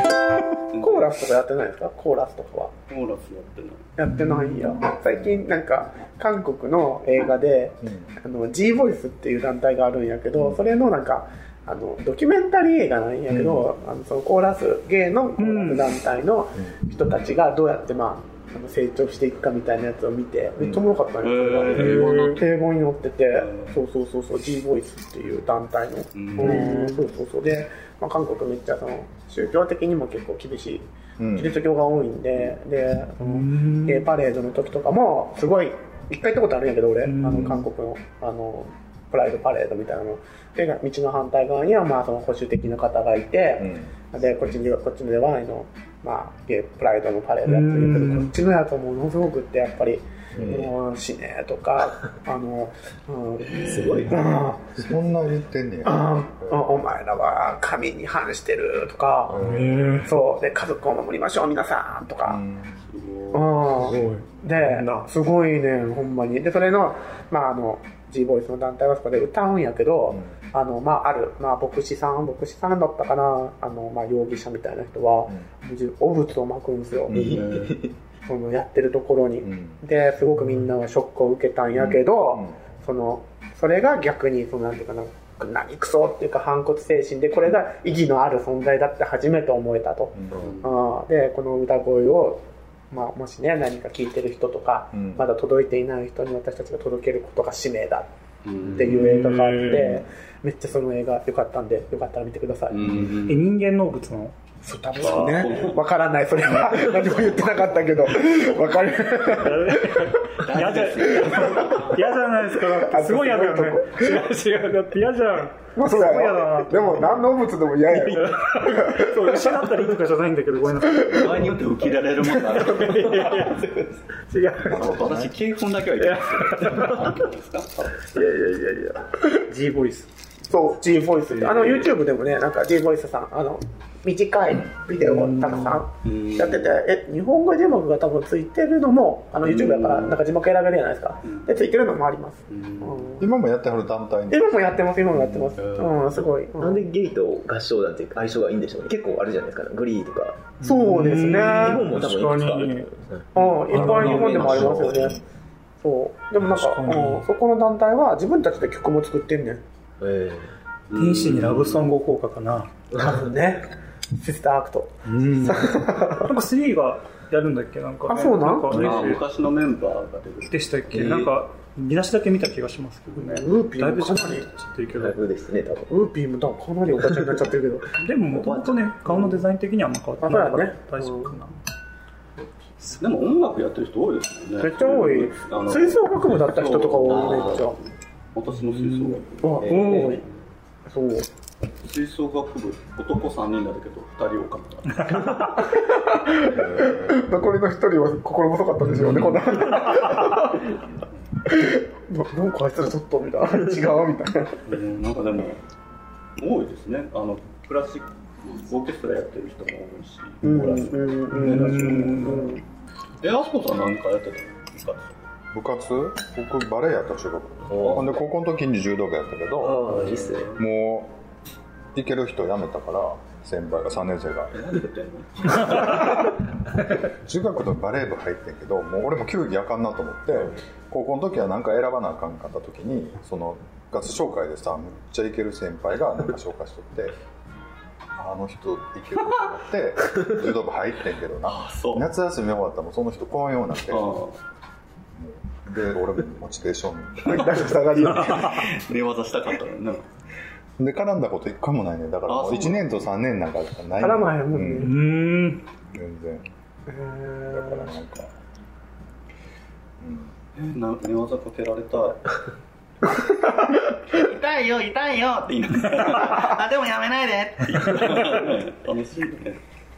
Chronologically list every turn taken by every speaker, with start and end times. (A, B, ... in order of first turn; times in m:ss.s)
0:00.7-0:01.2 A
0:00.8-0:02.7 B
0:02.9-0:03.9 A
0:04.0-0:54.8 B
0:07.8-0:08.1 C
0:13.3-0:13.7 C
0:15.4-0:15.9 D
0:21.2-0:22.5 A
0:21.8-0:22.4 D
0:23.4-0:23.8 A
0:26.2-0:26.7 A
0:26.4-0:27.0 D
0:31.2-0:31.6 C
0:33.2-0:34.1 D
0:37.0-0:37.6 D
0:43.6-0:43.9 C
0:47.5-0:48.3 D
0:50.4-0:50.7 C
0:53.6-0:54.3 E
0:54.8-0:56.9 C
0:55.8-0:59.4 B
0:59.3-0:59.9 C
0:59.4-1:00.1 D
1:00.0-1:02.4 B
1:02.2-1:02.8 C
1:02.9-1:03.7 A
1:03.3-1:17.4 B
1:03.8-1:05.1 D
1:17.1-1:17.5 C
1:17.1-1:17.9 E
1:17.4-1:17.7 A
1:18.2-1:38.1 B
1:19.4-1:19.8 C
1:21.8-1:22.6 C
1:30.2-1:30.5 C
1:30.4-1:30.7 A
1:34.9-1:35.3 C
1:38.4-1:39.0 A
1:38.6-1:43.0 B
1:38.9-1:39.9 D
1:42.7-1:43.5 A
1:43.2-1:44.4 D
1:44.6-1:50.2 B
1:45.0-1:45.8 A
1:46.5-1:47.4 A
1:48.3-1:48.6 A
1:49.2-1:57.3 D
1:50.4-1:52.0 A
1:51.2-1:51.9 B
1:52.6-1:54.3 B
1:55.8-1:59.6 B
1:57.9-2:01.6 D
2:01.0-2:01.6 B
2:01.1-2:03.3 A
2:02.4-2:03.7 D
2:02.8-2:04.0 E
2:04.3-2:04.9 D
2:04.6-2:05.4 C
2:04.7-2:08.1 A
2:06.0-2:07.0 D
2:06.6-2:06.9 E
2:08.2-2:09.0 E
2:09.4-2:10.1 D
2:10.5-2:23.3 B
2:11.4-2:11.9 A
2:15.0-2:15.8 D
2:16.0-2:16.8 A
2:19.4-2:20.2 A
2:21.2-2:21.5 A
2:22.5-2:23.1 A
2:23.2-2:24.6 C
2:24.3-2:26.9 B
2:25.3-2:26.3 A
2:26.6-2:30.5 E
2:30.6-2:32.9 D
2:30.6-2:31.9 B
2:31.4-2:34.9 E
2:33.3-2:35.2 B
2:33.7-2:34.5 D
2:33.8-2:35.2 C
2:35.8-2:39.6 B
2:36.4-2:37.3 D
2:40.0-2:40.5 E
2:40.9-2:41.9 A
2:41.0-2:42.7 D
2:42.9-2:43.2 E
2:43.0-2:46.4 B
2:45.0-2:49.2 D
2:48.1-2:49.0 B
2:48.7-2:50.8 A
2:50.5-2:55.2 D
2:50.9-2:51.3 E
2:53.2-2:54.5 B
2:54.9-2:55.9 E
2:55.9-2:57.9 B
2:58.0-3:01.5 D
2:58.3-2:59.3 E
3:00.2-3:01.3 B
3:03.0-3:10.1 A
3:04.6-3:07.8 B
3:07.1-3:07.6 E
3:08.7-3:10.2 D
3:09.4-3:10.2 B
3:09.6-3:10.2 E
3:10.9-3:11.3 B
3:11.8-3:15.5 A
3:14.9-3:15.6 D
3:15.3-3:20.8 B
3:21.5-3:24.6 B
3:24.7-3:25.6 A
3:26.4-3:32.4 A
3:30.4-3:32.6 B
3:31.3-3:32.6 D
3:33.2-3:35.1 A
3:35.5-3:40.0 C
3:37.7-3:38.1 A
3:37.7-3:38.0 E
3:39.6-3:40.6 E
3:40.0-3:40.6 A
3:40.6-3:41.2 C
3:42.0-3:44.5 C
3:44.5-3:46.4 A
3:45.6-3:46.1 C
3:47.0-3:57.2 C
3:58.2-4:04.2 C
4:01.5-4:02.1 A
4:03.9-4:04.4 A
4:05.2-4:07.8 C
4:07.3-4:08.8 B
4:08.0-4:10.1 A
4:10.8-4:14.9 C
4:12.3-4:12.8 A
4:14.0-4:15.0 B
4:14.8-4:15.6 D
4:15.9-4:16.4 C
4:16.9-4:17.9 B
4:17.5-4:18.3 C
4:20.0-4:20.3 C
4:20.6-4:22.3 A
4:24.1-4:29.6 A